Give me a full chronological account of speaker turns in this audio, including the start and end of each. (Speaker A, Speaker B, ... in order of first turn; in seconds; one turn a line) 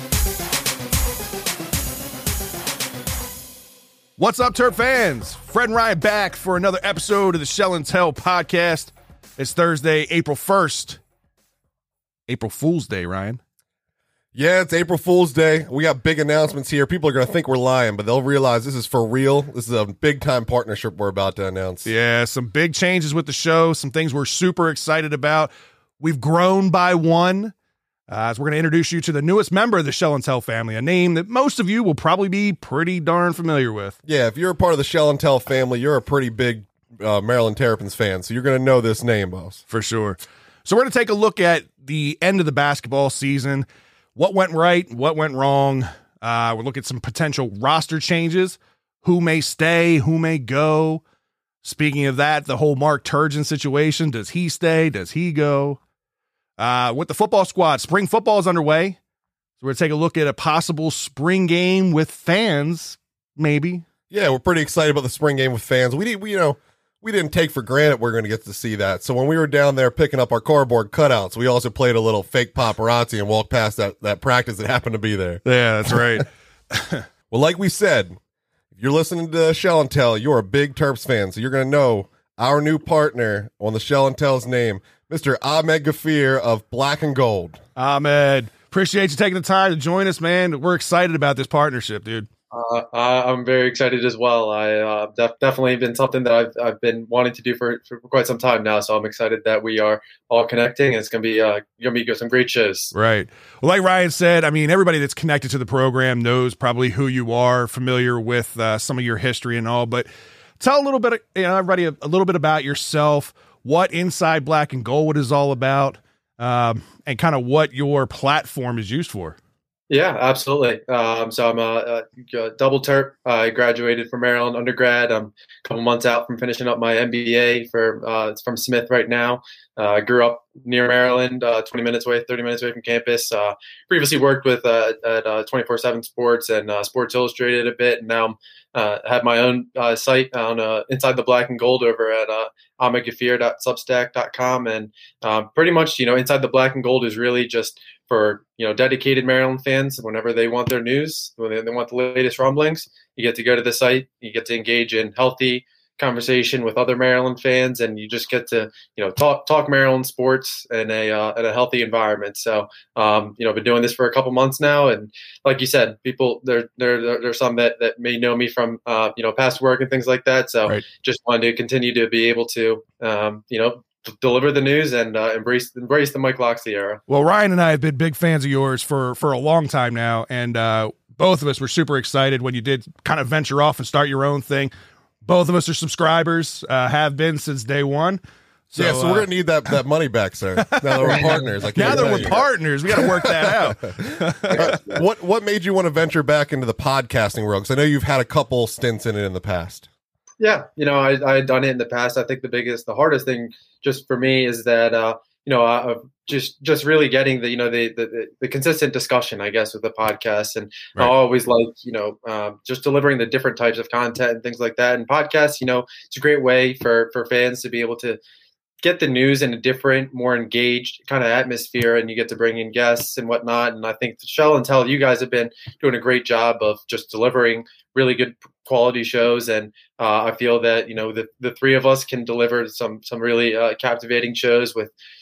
Speaker A: 4.2-11.0
Speaker A: 12.3-13.4
Speaker B: 14.3-21.9
Speaker A: 21.8-27.5
Speaker A: 28.1-33.9
Speaker B: 34.0-39.6
Speaker A: 39.7-51.0
Speaker A: 51.6-55.8
Speaker A: 56.6-59.0
Speaker A: 59.6-63.8
Speaker B: 64.1-76.2
Speaker A: 75.4-77.0
Speaker B: 77.3-78.2
Speaker B: 78.8-87.6
Speaker A: 87.8-92.3
Speaker C: 92.5-102.9
Speaker A: 102.9-110.1
Speaker A: 110.6-119.4
Speaker C: 119.9-177.0
Speaker A: 177.1-184.7
Speaker A: 185.2-189.7
Speaker B: 188.8-199.8
Speaker A: 190.6-194.8
Speaker C: 191.1-192.4
Speaker C: 194.5-195.0
Speaker C: 200.4-218.2
Speaker C: 218.8-234.9